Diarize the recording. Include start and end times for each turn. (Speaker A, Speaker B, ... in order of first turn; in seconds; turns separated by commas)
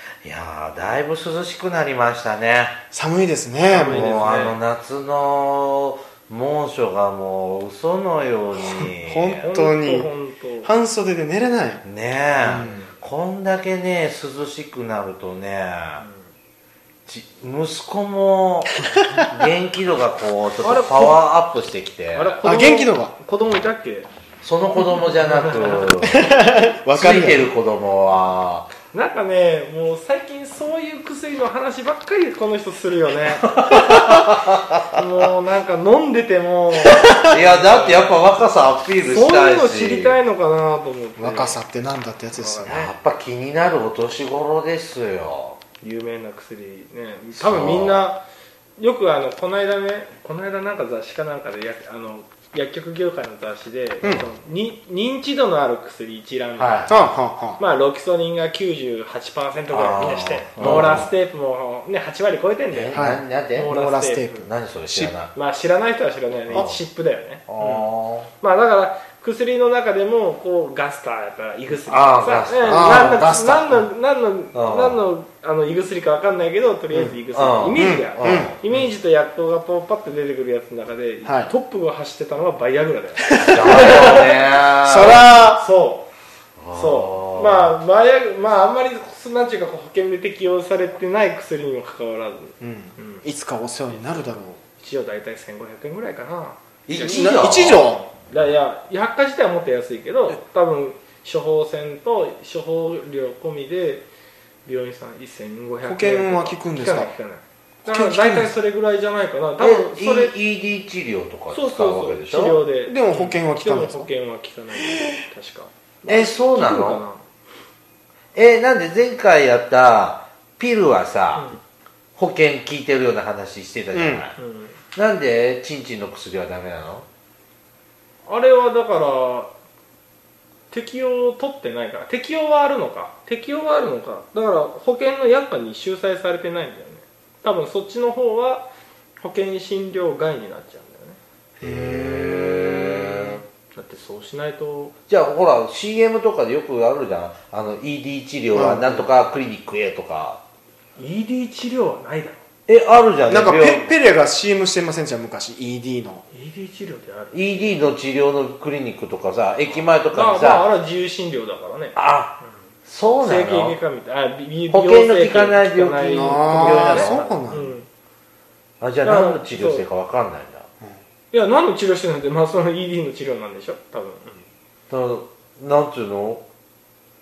Speaker A: 0.2-2.8, Speaker B: 2.9-4.2, Speaker C: 3.7-4.6, Speaker A: 3.7-9.4, Speaker B: 8.6-10.1, Speaker C: 9.4-10.7, Speaker B: 10.6-11.8, Speaker A: 11.8-16.0, Speaker B: 12.4-12.8, Speaker C: 12.6-12.9, Speaker C: 16.0-16.3, Speaker A: 17.1-22.4, Speaker C: 20.6-21.3, Speaker C: 22.1-24.1, Speaker B: 22.4-23.1, Speaker A: 24.4-26.3, Speaker C: 25.2-26.0, Speaker B: 26.0-27.5, Speaker A: 26.9-28.7, Speaker C: 28.9-34.3, Speaker A: 33.6-35.0, Speaker C: 34.9-38.2, Speaker B: 36.8-37.3, Speaker A: 37.3-40.2, Speaker C: 39.0-41.6, Speaker B: 41.2-42.9, Speaker C: 42.3-42.9, Speaker A: 42.7-45.6, Speaker C: 45.8-48.2, Speaker A: 47.3-48.0, Speaker C: 48.8-64.5, Speaker B: 54.0-54.3, Speaker A: 56.6-57.0, Speaker B: 56.9-57.6, Speaker A: 59.7-61.1, Speaker B: 60.6-61.0, Speaker A: 62.7-63.7, Speaker B: 62.9-65.2, Speaker A: 64.4-65.3, Speaker C: 65.3-67.9, Speaker A: 66.5-66.8, Speaker A: 67.5-68.3, Speaker C: 68.4-84.5, Speaker A: 71.7-73.2, Speaker B: 72.7-73.9, Speaker A: 74.5-75.0, Speaker B: 76.9-77.2, Speaker A: 77.3-78.9, Speaker B: 77.8-78.5, Speaker B: 81.2-81.5, Speaker B: 83.3-84.0, Speaker A: 83.5-85.3, Speaker B: 84.8-85.6, Speaker C: 85.1-86.1, Speaker A: 86.6-87.8, Speaker C: 86.7-93.3, Speaker B: 92.6-94.6, Speaker C: 93.9-104.1, Speaker A: 96.9-97.9, Speaker B: 97.0-98.0, Speaker C: 104.7-110.4, Speaker B: 105.8-107.1, Speaker B: 107.9-108.5, Speaker A: 109.6-112.6, Speaker C: 111.5-117.2, Speaker B: 112.9-114.1, Speaker B: 114.8-115.0, Speaker A: 116.1-117.0, Speaker A: 118.3-121.5, Speaker A: 122.2-124.4, Speaker B: 123.9-124.2, Speaker C: 124.4-124.8, Speaker A: 125.0-127.1, Speaker C: 128.3-129.5, Speaker C: 130.7-141.2, Speaker A: 141.6-143.4, Speaker B: 141.6-142.6, Speaker C: 143.2-144.9, Speaker A: 145.1-150.4, Speaker B: 148.5-149.1, Speaker C: 151.0-152.4, Speaker A: 152.7-153.9, Speaker B: 153.3-156.2, Speaker C: 156.3-157.8, Speaker A: 157.3-160.7, Speaker C: 159.7-162.6, Speaker A: 161.9-163.8, Speaker C: 163.2-167.9, Speaker A: 164.7-167.3, Speaker B: 166.1-167.7, Speaker A: 168.8-170.7, Speaker C: 169.0-169.9, Speaker C: 171.3-174.5, Speaker A: 174.9-176.4